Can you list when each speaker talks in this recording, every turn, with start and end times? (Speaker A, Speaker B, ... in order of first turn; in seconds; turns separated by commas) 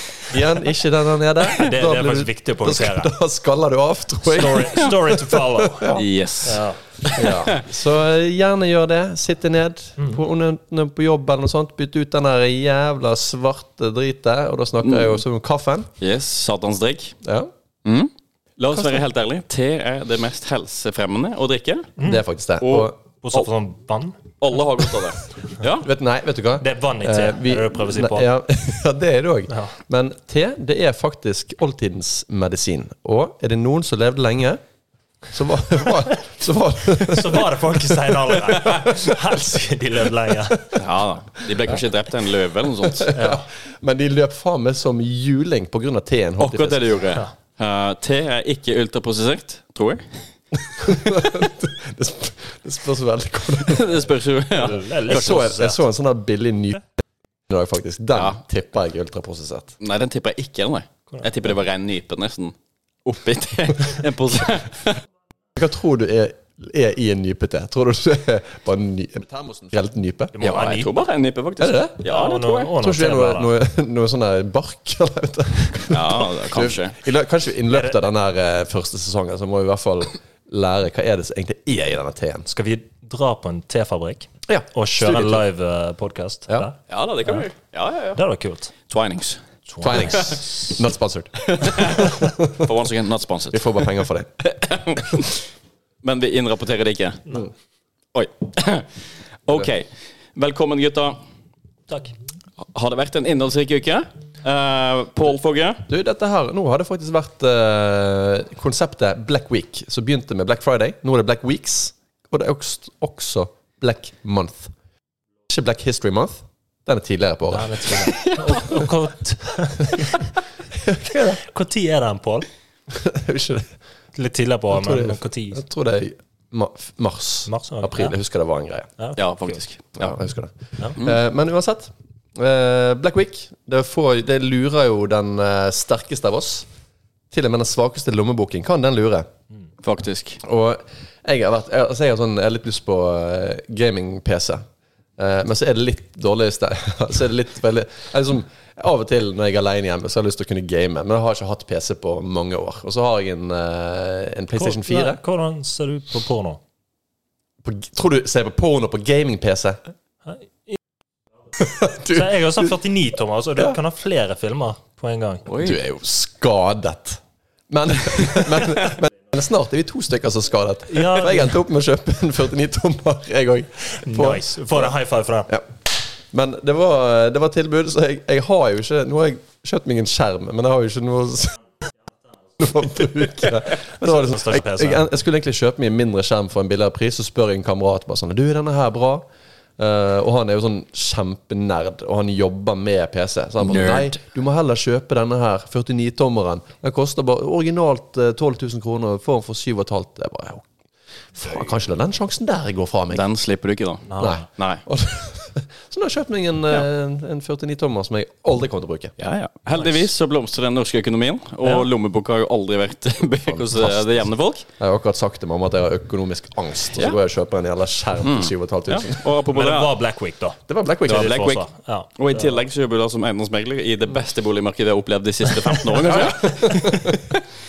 Speaker A: 0.2-6.0, Speaker B: 1.6-3.1, Speaker B: 4.2-6.8, Speaker C: 6.0-7.6, Speaker A: 7.2-15.9, Speaker C: 14.8-15.2, Speaker C: 16.0-17.2, Speaker A: 17.2-17.5, Speaker C: 17.9-21.9, Speaker A: 18.7-19.0, Speaker B: 22.0-22.2, Speaker A: 22.0-23.0, Speaker C: 22.6-23.5, Speaker B: 23.2-24.2, Speaker C: 24.4-25.9, Speaker A: 25.8-34.6, Speaker B: 26.6-28.3, Speaker A: 35.3-39.1, Speaker B: 36.9-40.8, Speaker C: 40.8-43.1, Speaker A: 42.9-47.0, Speaker B: 43.1-43.5, Speaker C: 46.4-50.0, Speaker A: 50.7-54.0, Speaker C: 53.6-55.4, Speaker B: 54.6-55.8, Speaker A: 55.1-56.9, Speaker A: 57.5-59.8, Speaker C: 59.8-65.0, Speaker A: 65.5-70.3, Speaker B: 70.3-71.1, Speaker C: 70.4-72.7, Speaker A: 71.6-72.0, Speaker B: 72.0-73.5, Speaker A: 72.8-82.5, Speaker C: 75.9-77.0, Speaker B: 82.5-87.4, Speaker A: 84.5-85.4, Speaker C: 86.9-88.2, Speaker B: 88.2-88.7, Speaker C: 88.9-90.4, Speaker B: 89.7-90.7, Speaker A: 89.8-92.6, Speaker C: 91.4-93.9, Speaker A: 93.5-94.3, Speaker C: 94.4-95.4, Speaker C: 96.0-97.4, Speaker C: 98.1-98.9, Speaker C: 99.5-101.2, Speaker B: 101.9-102.2, Speaker C: 102.6-105.8, Speaker A: 105.9-114.7, Speaker A: 115.5-118.2, Speaker B: 117.5-120.3, Speaker C: 118.0-118.8, Speaker A: 120.7-121.4, Speaker B: 121.4-122.5, Speaker A: 122.9-123.7, Speaker B: 124.2-125.6, Speaker A: 124.7-128.9, Speaker B: 127.5-128.2, Speaker B: 129.0-129.6, Speaker C: 129.2-130.0, Speaker A: 130.0-136.7, Speaker A: 137.3-139.3, Speaker C: 139.8-140.4, Speaker A: 140.4-144.7, Speaker A: 145.2-155.2, Speaker B: 154.6-156.6, Speaker A: 157.6-159.8, Speaker B: 160.3-160.8, Speaker A: 161.6-162.7, Speaker B: 162.1-165.4, Speaker C: 165.5-165.8, Speaker A: 165.6-174.9, Speaker B: 170.9-171.5, Speaker B: 173.9-175.5, Speaker A: 176.3-181.6, Speaker A: 182.6-189.3, Speaker B: 184.0-185.1, Speaker A: 189.8-200.7, Speaker C: 193.6-194.2, Speaker A: 201.3-203.2, Speaker C: 203.1-204.8, Speaker B: 204.1-204.5, Speaker A: 204.2-209.1, Speaker C: 209.2-214.7, Speaker B: 211.6-211.9, Speaker A: 213.5-214.1, Speaker A: 214.8-219.2, Speaker C: 218.2-219.9, Speaker B: 219.5-222.5, Speaker A: 220.7-221.5, Speaker C: 221.1-221.6, Speaker C: 222.2-227.4, Speaker B: 225.8-226.9, Speaker A: 226.1-227.2